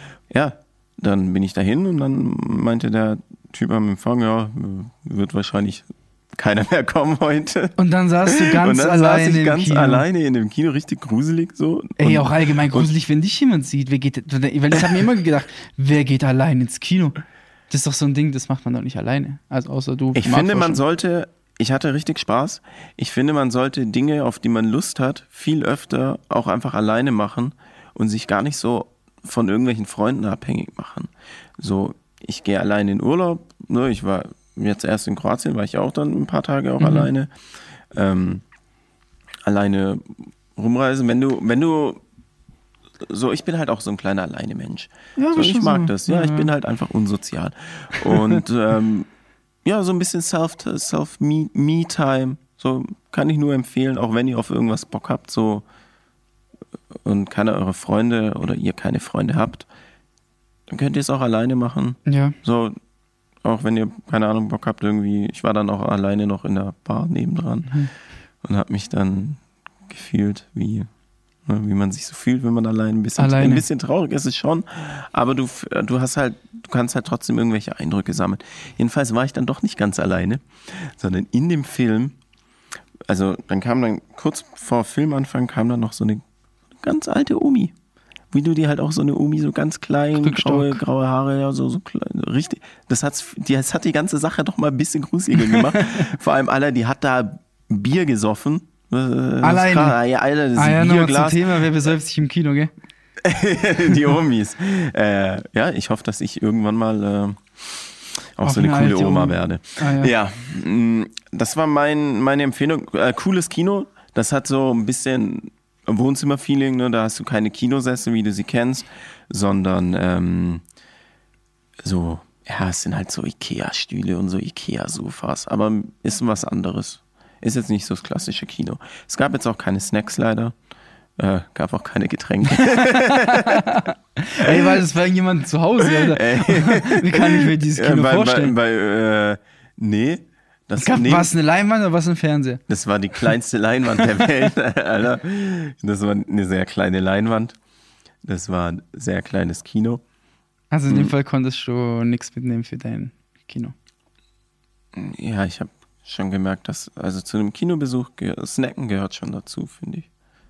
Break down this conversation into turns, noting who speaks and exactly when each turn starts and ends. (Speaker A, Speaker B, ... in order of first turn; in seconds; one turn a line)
Speaker A: 0.3-7.7
Speaker B: 7.8-10.0
Speaker A: 8.3-12.9
Speaker B: 12.0-17.2
Speaker A: 14.7-15.0
Speaker B: 17.7-20.8
Speaker A: 20.1-37.3
Speaker B: 36.8-37.1
Speaker A: 37.9-38.4
Speaker A: 39.4-42.0
Speaker A: 43.0-49.1
Speaker B: 45.1-46.5
Speaker B: 48.0-48.4
Speaker A: 49.6-55.6
Speaker A: 56.9-59.7
Speaker A: 60.7-62.8
Speaker B: 62.1-62.4
Speaker A: 63.4-67.7
Speaker A: 68.4-70.9
Speaker A: 71.5-82.2
Speaker B: 73.2-73.7
Speaker A: 83.1-86.2
Speaker A: 86.8-87.7
Speaker A: 88.3-101.9
Speaker B: 90.2-90.8
Speaker B: 95.4-96.1
Speaker B: 99.4-100.0
Speaker B: 100.5-102.7
Speaker A: 103.2-120.6
Speaker B: 108.4-110.1
Speaker A: 121.8-130.6
Speaker A: 131.2-133.8
Speaker B: 132.5-138.5
Speaker A: 134.4-134.8
Speaker A: 135.8-141.3
Speaker B: 140.8-142.6
Speaker A: 142.7-147.6
Speaker A: 148.2-150.0
Speaker B: 150.7-153.7
Speaker A: 154.9-160.1